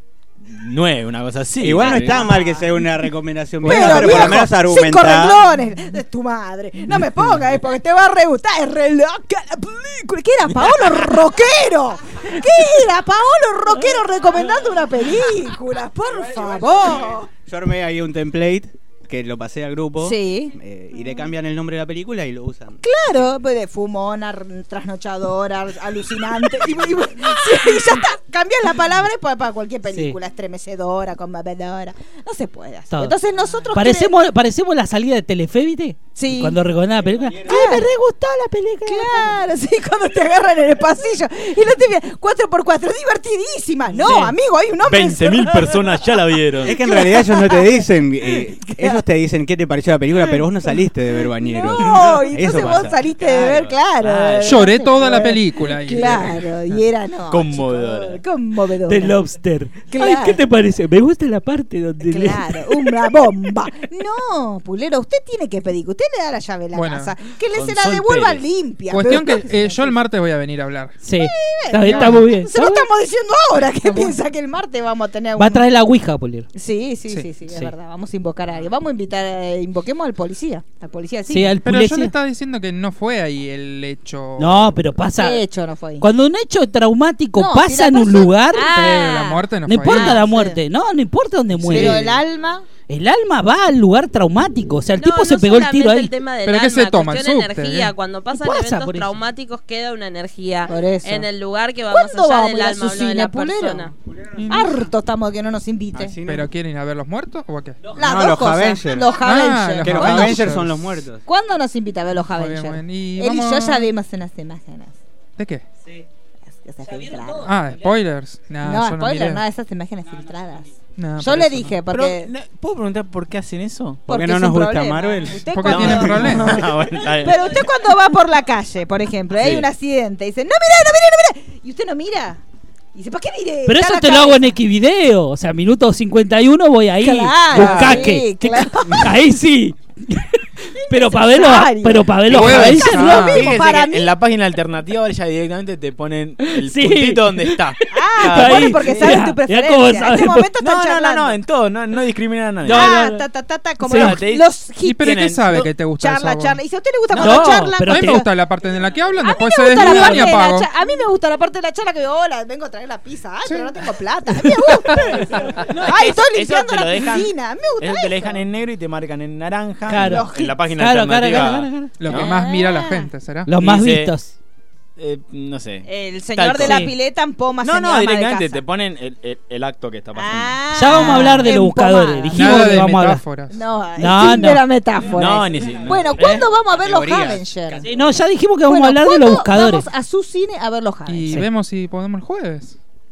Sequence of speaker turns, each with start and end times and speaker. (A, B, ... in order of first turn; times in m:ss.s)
0:00.4-0:02.4 A
0:01.6-0:05.4 B
0:01.8-0:02.7 C
0:03.6-0:17.3 C
0:03.7-0:04.4 A
0:16.4-0:22.8 B
0:20.0-0:20.6 C
0:22.8-0:34.2 C
0:29.9-0:30.2 D
0:32.9-0:33.2 D
0:33.7-0:39.3 D
0:36.2-0:36.6 C
0:37.1-0:37.8 B
0:37.5-0:37.9 C
0:38.9-0:49.0 C
0:44.0-0:44.3 D
0:44.8-0:46.8 A
0:46.6-0:53.0 B
0:51.4-0:59.2 C
0:52.6-0:54.7 A
0:54.4-0:56.4 E
0:57.3-0:58.2 A
0:58.9-1:03.1 D
0:59.9-1:00.4 C
1:02.0-1:09.9 C
1:06.7-1:07.2 E
1:07.5-1:08.4 A
1:08.9-1:11.0 E
1:11.0-1:12.9 D
1:11.1-1:15.6 C
1:11.8-1:12.3 E
1:15.4-1:16.5 D
1:16.5-1:21.6 C
1:21.3-1:22.1 D
1:21.6-1:24.8 E
1:24.4-1:25.4 D
1:25.2-1:26.1 C
1:26.0-1:29.1 D
1:27.4-1:30.6 C
1:28.6-1:30.2 E
1:29.7-1:32.1 D
1:31.6-1:32.1 E
1:31.7-1:32.7 C
1:32.9-1:36.1 D
1:35.0-1:43.9 F
1:36.4-1:37.9 E
1:38.3-1:39.2 D
1:40.7-1:41.3 C
1:41.9-1:43.9 C
1:44.1-1:44.8 B
1:44.4-1:44.8 E
1:44.5-1:46.2 C
1:46.0-1:46.5 B
1:46.3-1:48.0 E
1:48.0-1:49.2 B
1:48.0-1:50.5 C
1:49.1-1:50.8 E
1:49.8-1:51.2 B
1:51.3-1:55.0 C
1:52.2-1:53.9 E
1:55.4-1:55.6 E
1:56.6-1:57.5 C
1:57.4-1:59.4 E
1:58.6-2:02.3 C
2:01.0-2:01.7 E
2:01.8-2:04.1 A
2:04.1-2:05.6 B
2:04.1-2:12.4 C
2:05.5-2:06.6 E
2:05.6-2:07.7 A
2:09.4-2:09.7 A
2:13.0-2:14.5 C
2:13.7-2:23.4 D
2:17.0-2:19.2 C
2:17.5-2:18.1 B
2:20.8-2:24.2 C
2:22.3-2:23.6 E
2:22.4-2:29.2 A
2:26.4-2:30.5 D
2:27.9-2:31.4 C
2:30.6-2:33.0 A
2:32.6-2:33.2 D
2:32.6-2:38.3 C
2:33.8-2:34.2 D
2:34.0-2:35.7 A
2:34.8-2:36.6 E
2:37.1-2:38.3 D
2:37.2-2:40.7 E
2:39.2-2:48.4 C
2:39.8-2:40.3 D
2:45.6-2:52.4 A
2:49.9-2:52.0 D
2:49.9-2:50.6 C
2:52.0-2:53.5 E
2:52.1-2:53.1 C
2:53.5-2:54.3 D
2:53.6-2:54.1 A
2:55.0-2:56.9 A
2:55.9-2:58.6 C
2:56.6-2:56.9 D
2:57.6-3:00.6 A
3:00.2-3:02.8 C
3:00.8-3:03.2 D
3:02.3-3:03.6 E
3:03.5-3:07.9 C
3:04.0-3:04.6 D
3:05.1-3:06.5 A
3:06.7-3:07.7 B
3:07.8-3:09.9 D
3:08.7-3:11.4 C
3:11.1-3:12.8 E